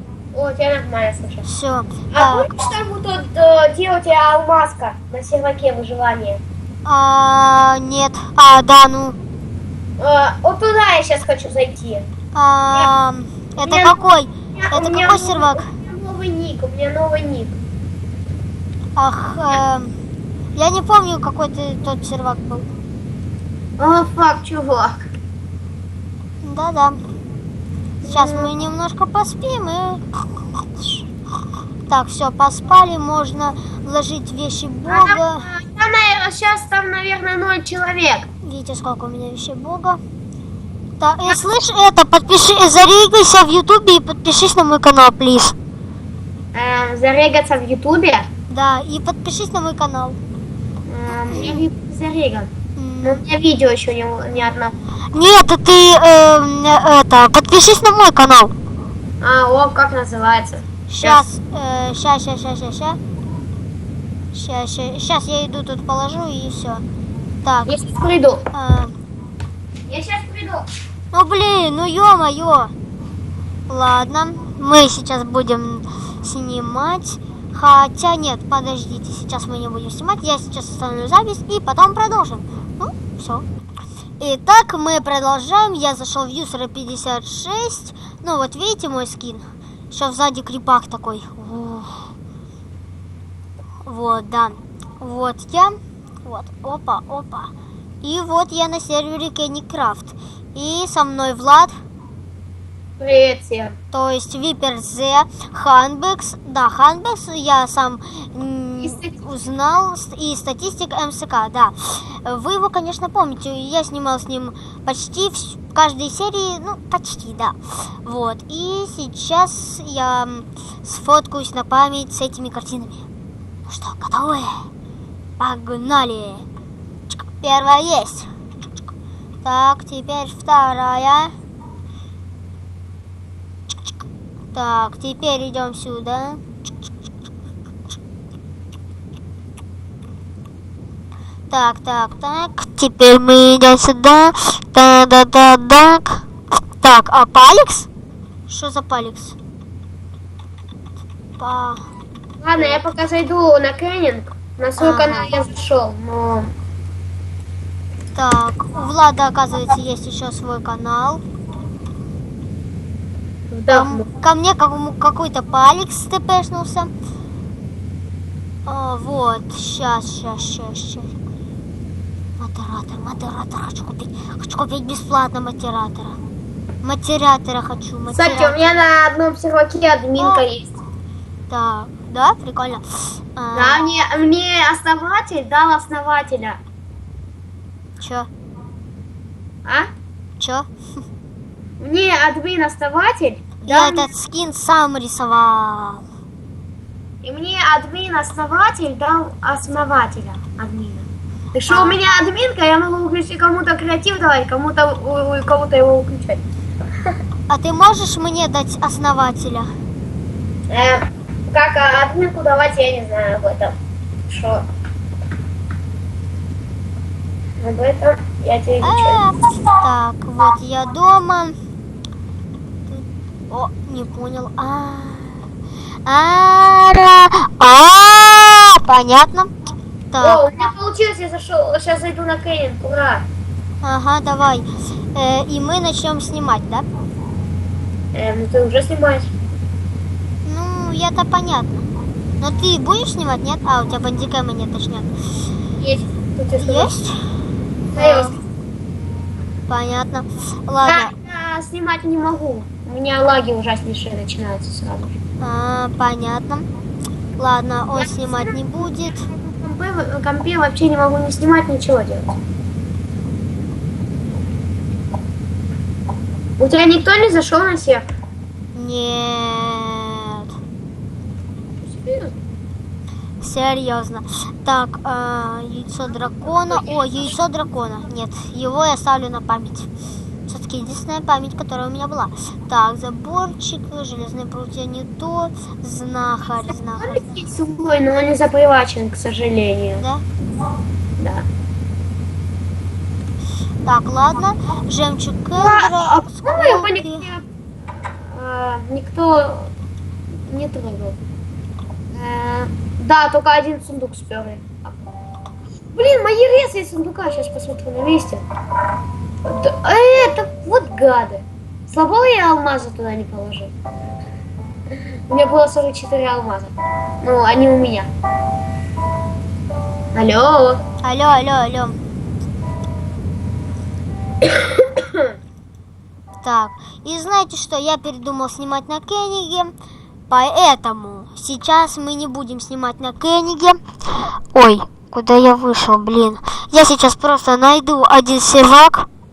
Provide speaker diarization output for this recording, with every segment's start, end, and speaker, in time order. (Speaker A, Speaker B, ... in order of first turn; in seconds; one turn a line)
Speaker A: 0.3-1.4
Speaker B: 1.4-2.5
Speaker A: 2.1-6.4
Speaker B: 6.8-9.2
Speaker A: 10.0-12.0
Speaker B: 12.3-15.7
Speaker A: 13.6-14.0
Speaker A: 14.5-17.6
Speaker B: 18.9-19.9
Speaker B: 20.5-22.7
Speaker A: 23.8-25.1
Speaker B: 26.4-27.0
Speaker A: 28.0-28.5
Speaker B: 28.1-30.0
Speaker B: 31.9-35.5
Speaker A: 34.9-38.3
Speaker B: 38.4-40.0
Speaker B: 41.0-45.5
Speaker A: 46.5-48.2
Speaker B: 48.5-50.2
Speaker A: 50.9-52.5
Speaker B: 51.2-51.6
Speaker B: 52.8-53.2
Speaker A: 53.0-54.7
Speaker B: 55.1-58.5
Speaker A: 59.2-61.2
Speaker B: 60.9-63.0
Speaker B: 64.3-66.8
Speaker B: 67.4-67.7
Speaker A: 67.7-68.5
Speaker B: 68.5-68.9
Speaker A: 69.9-70.6
Speaker B: 71.1-72.7
Speaker B: 73.7-83.5
Speaker B: 84.2-92.1
Speaker B: 93.8-97.5
Speaker B: 98.0-101.8
Speaker A: 103.0-103.8
Speaker B: 103.9-123.0
Speaker A: 108.8-109.1
Speaker B: 123.7-124.6
Speaker B: 125.4-126.5
Speaker B: 127.1-128.3
Speaker B: 129.4-131.3
Speaker B: 134.5-136.4
Speaker B: 141.5-146.2
Speaker B: 146.8-147.9
Speaker B: 148.5-149.3
Speaker B: 151.4-151.8
Speaker A: 152.4-156.5
Speaker B: 152.5-152.9
Speaker B: 154.8-155.3
Speaker B: 158.1-161.2
Speaker A: 163.5-164.1
Speaker B: 163.7-166.9
Speaker B: 168.7-171.1
Speaker B: 172.4-176.2
Speaker B: 176.8-178.6
Speaker A: 178.1-180.7
Speaker B: 180.2-180.4
Speaker B: 181.5-183.8
Speaker A: 183.5-186.6
Speaker B: 188.0-188.3
Speaker B: 190.4-190.7
Speaker A: 191.8-194.1
Speaker B: 193.6-196.0
Speaker A: 197.2-206.4
Speaker B: 201.7-202.0
Speaker B: 207.5-209.7
Speaker A: 210.7-213.7
Speaker A: 214.3-214.7
Speaker A: 217.6-219.2
Speaker B: 218.8-221.6
Speaker B: 222.9-225.4
Speaker B: 226.0-229.5
Speaker B: 230.1-230.4
Speaker A: 230.2-233.2
Speaker B: 233.8-236.8
Speaker A: 238.1-239.3
Speaker B: 240.4-241.8
Speaker B: 242.4-245.1
Speaker A: 245.8-246.9
Speaker B: 246.6-247.2
Speaker B: 247.9-248.4
Speaker A: 247.9-248.3
Speaker B: 249.7-251.1
Speaker A: 250.8-255.2
Speaker B: 255.4-256.7
Speaker B: 257.4-259.3
Speaker A: 257.9-262.3
Speaker A: 266.6-268.0
Speaker B: 268.7-270.5
Speaker A: 271.8-272.4
Speaker B: 273.4-279.9
Speaker B: 280.5-287.3
Speaker A: 287.0-290.0
Speaker B: 290.0-290.2
Speaker A: 291.2-291.4
Speaker B: 293.8-297.3
Speaker A: 295.6-297.4
Speaker A: 298.0-299.7
Speaker A: 300.5-301.2
Speaker A: 302.1-305.0
Speaker A: 305.9-308.4
Speaker A: 309.4-313.7
Speaker A: 315.3-318.1
Speaker A: 320.1-320.8
Speaker B: 321.0-322.0
Speaker A: 324.4-325.3
Speaker B: 326.4-329.7
Speaker B: 330.3-333.8
Speaker B: 334.5-339.1